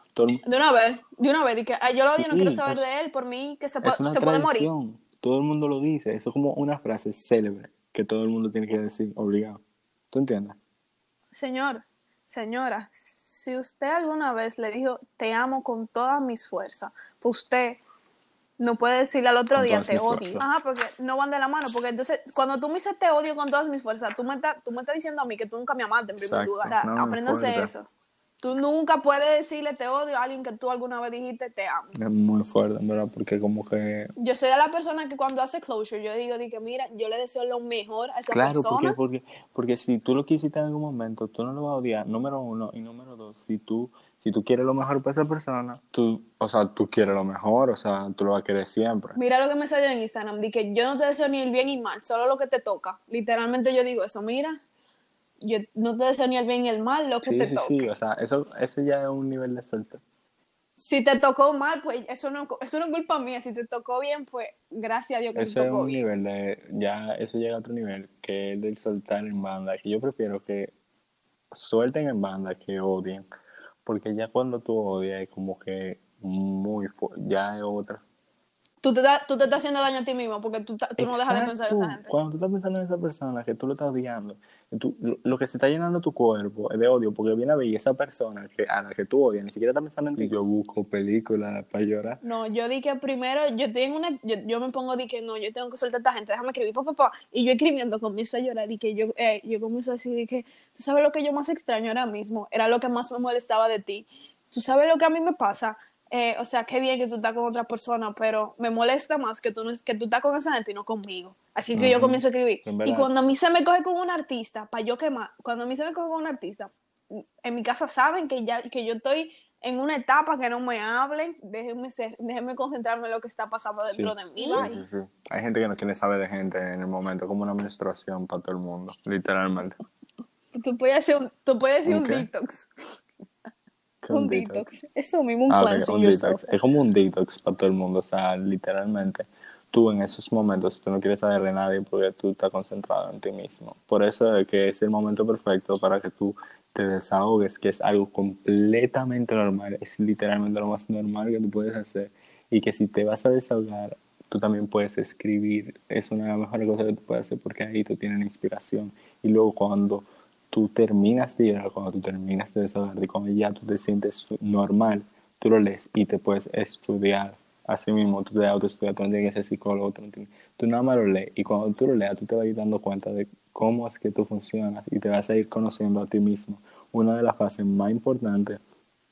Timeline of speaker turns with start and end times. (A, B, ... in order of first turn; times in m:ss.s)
0:00.2-0:00.4 A
0:00.4-0:04.7 B
0:02.1-0:02.8 A
0:03.8-0:10.6 A
0:11.3-0:17.8 B
0:18.6-0:27.9 B
0:19.5-0:20.5 A
0:26.2-0:27.7 A
0:28.4-0:31.9 B
0:32.0-0:34.1 A
0:34.2-0:39.0 B
0:38.3-0:49.2 A
0:49.2-0:54.6 B
0:55.4-0:57.9 B
0:57.2-1:00.0 A
1:00.8-1:06.0 B
1:05.4-1:10.7 A
1:11.5-1:13.3 A
1:13.8-1:18.0 A
1:18.8-1:22.2 B
1:21.0-1:32.2 A
1:32.2-2:04.8 B
1:51.8-1:53.1 A
2:03.9-2:09.8 A
2:10.5-2:13.0 B
2:11.8-2:12.3 A
2:14.0-2:14.7 A
2:14.1-2:16.5 B
2:15.5-2:58.6 A